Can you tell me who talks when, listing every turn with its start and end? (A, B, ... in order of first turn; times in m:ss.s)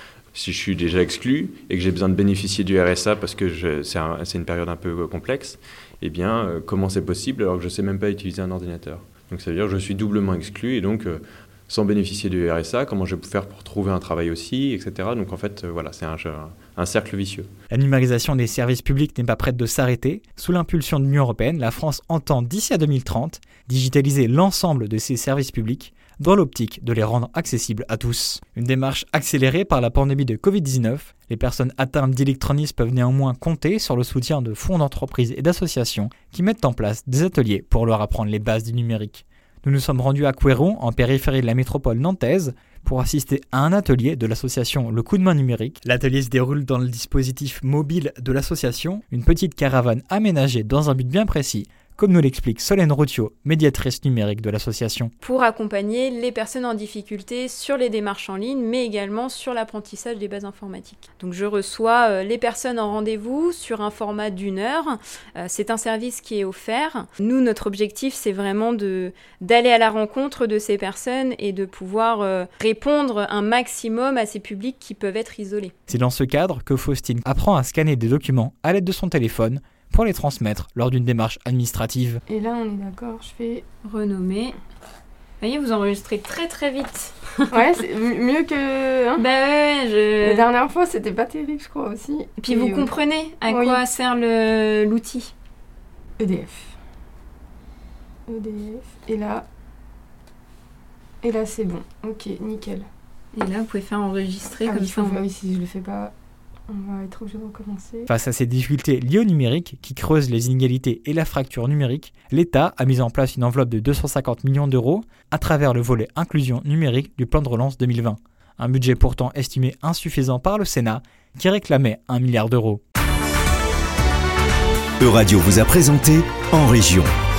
0:00.3-0:17.5 A
0:17.7-0:55.1 B
0:55.2-1:15.7 C
1:15.9-1:22.2 B
1:22.3-1:23.6 D
1:23.8-1:24.6 C
1:25.4-1:27.6 C
1:27.5-1:29.3 D
1:29.2-1:30.4 C
1:30.2-1:32.9 D
1:32.4-1:35.3 C
1:33.5-1:33.8 D
1:36.2-1:36.8 D
1:38.3-1:39.4 D
1:41.2-1:42.9 D
1:43.3-1:45.2 C
1:44.6-1:46.1 D
1:46.7-1:48.1 D
1:48.1-2:02.8 B
2:05.0-2:07.1 E